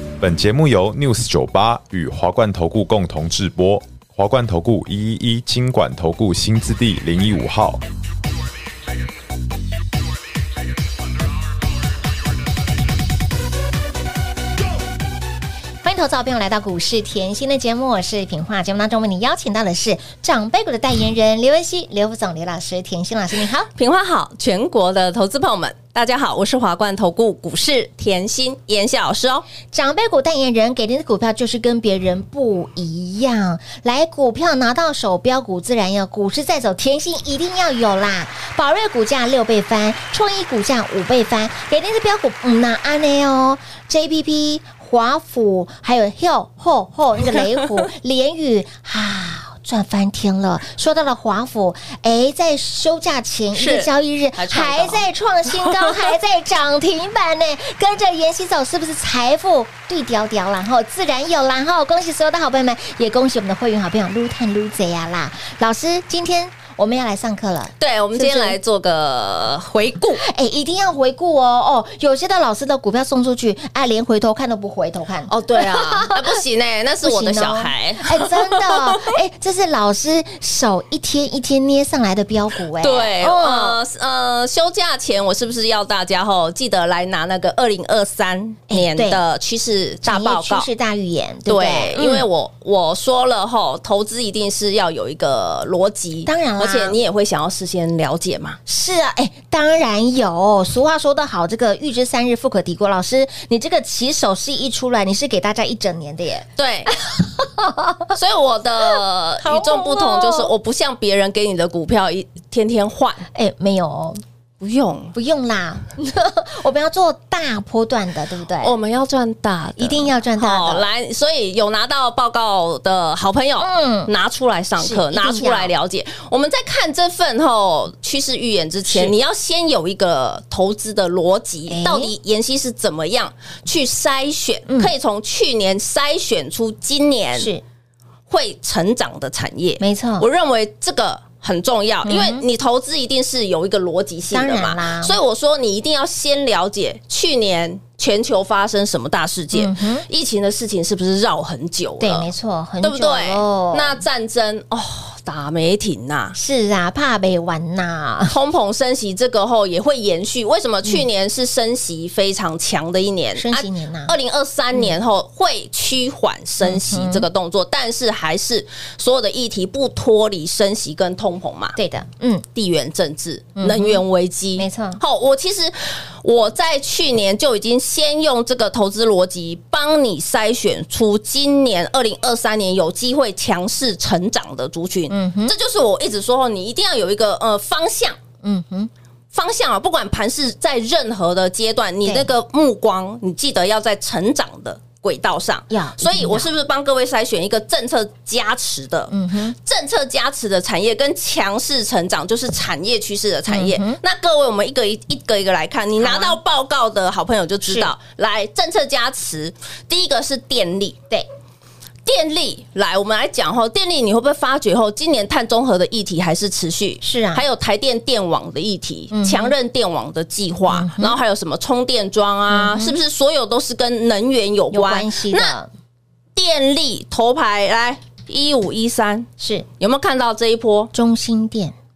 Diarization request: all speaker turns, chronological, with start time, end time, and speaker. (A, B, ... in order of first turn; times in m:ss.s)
0:00.2-0:07.8 A
0:15.8-0:23.7 B
0:23.7-0:29.4 C
0:29.7-1:08.6 B
0:53.5-0:55.1 C
0:55.6-0:56.0 C
1:07.8-1:10.2 C
1:10.2-1:16.3 B
1:15.3-1:19.1 C
1:17.0-1:23.8 B
1:22.8-1:30.7 C
1:28.7-1:29.2 B
1:30.0-1:32.2 B
1:31.4-1:38.6 C
1:36.2-1:37.0 B
1:38.6-1:46.4 B
1:46.6-1:47.0 C
1:47.0-1:48.1 B
1:48.1-1:53.2 C
1:48.9-1:50.5 B
1:53.3-1:54.2 B
1:54.6-1:55.1 C
1:55.1-1:58.7 B
1:58.6-2:17.5 C
1:59.8-2:00.9 B
2:03.6-2:04.1 B
2:04.8-2:05.7 B
2:08.8-2:09.1 B
2:11.7-2:12.1 B
2:14.7-2:14.9 B
2:17.4-2:17.6 B
2:18.3-2:32.3 C
2:19.8-2:20.3 B
2:22.0-2:22.4 B
2:24.3-2:25.2 B
2:29.5-2:30.0 B
2:32.0-2:34.0 B
2:32.8-2:36.4 C
2:36.3-2:38.3 B
2:38.3-2:51.8 C
2:43.4-2:44.1 B
2:46.6-2:47.3 B
2:51.8-2:52.4 B
2:52.5-3:08.2 C
2:53.6-2:54.0 B
2:54.6-2:55.0 B
3:05.1-3:05.5 B
3:08.4-3:08.9 B
3:09.3-3:31.0 C
3:12.0-3:12.3 B
3:15.7-3:16.5 B
3:19.1-3:19.6 B
3:23.5-3:24.0 B
3:26.0-3:26.4 B
3:27.6-3:27.9 B
3:32.0-3:45.5 C
3:37.0-3:37.4 B
3:39.1-3:39.5 B
3:40.7-3:41.2 B
3:42.5-3:43.0 B
3:44.7-3:45.7 B
3:46.3-3:50.9 C
3:49.4-3:49.6 B
3:50.9-3:51.7 B